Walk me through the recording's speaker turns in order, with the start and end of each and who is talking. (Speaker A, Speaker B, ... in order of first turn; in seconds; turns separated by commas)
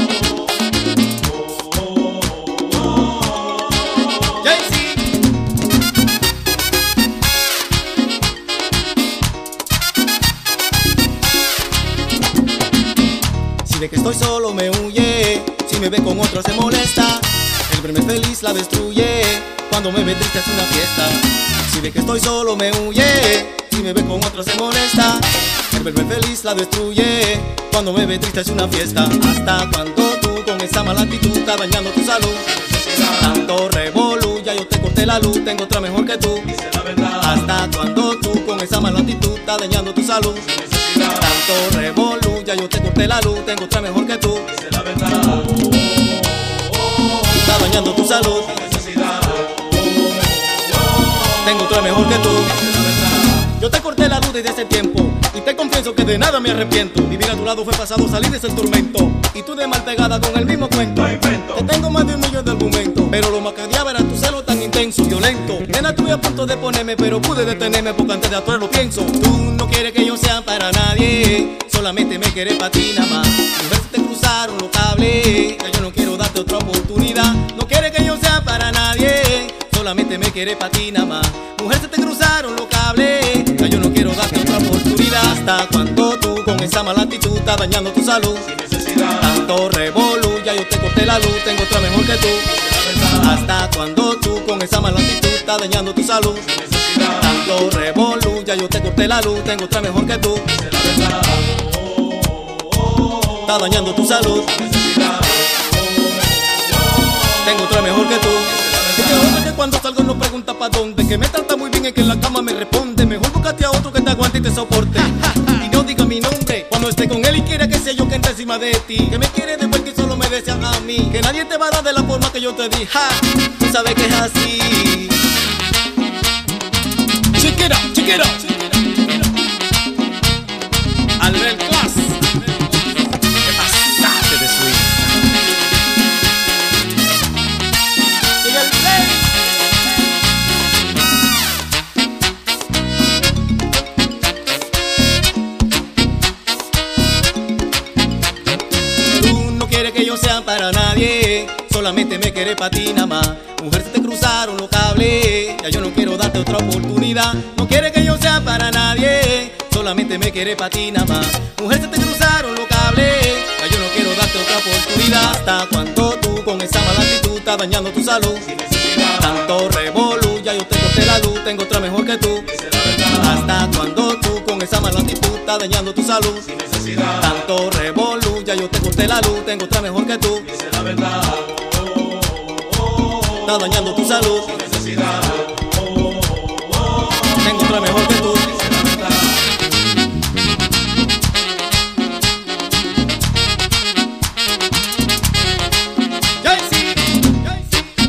Speaker A: 4.4-5.1, Speaker A: 13.6-44.7, Speaker A: 47.3-49.4, Speaker A: 51.4-100.8, Speaker A: 103.3-105.1, Speaker A: 107.4-125.2, Speaker A: 127.4-129.1, Speaker A: 131.2-132.6, Speaker A: 133.7-135.0, Speaker A: 138.4-139.5, Speaker A: 149.1-180.7, Speaker A: 183.3-185.4, Speaker A: 187.4-189.0, Speaker A: 196.4-197.5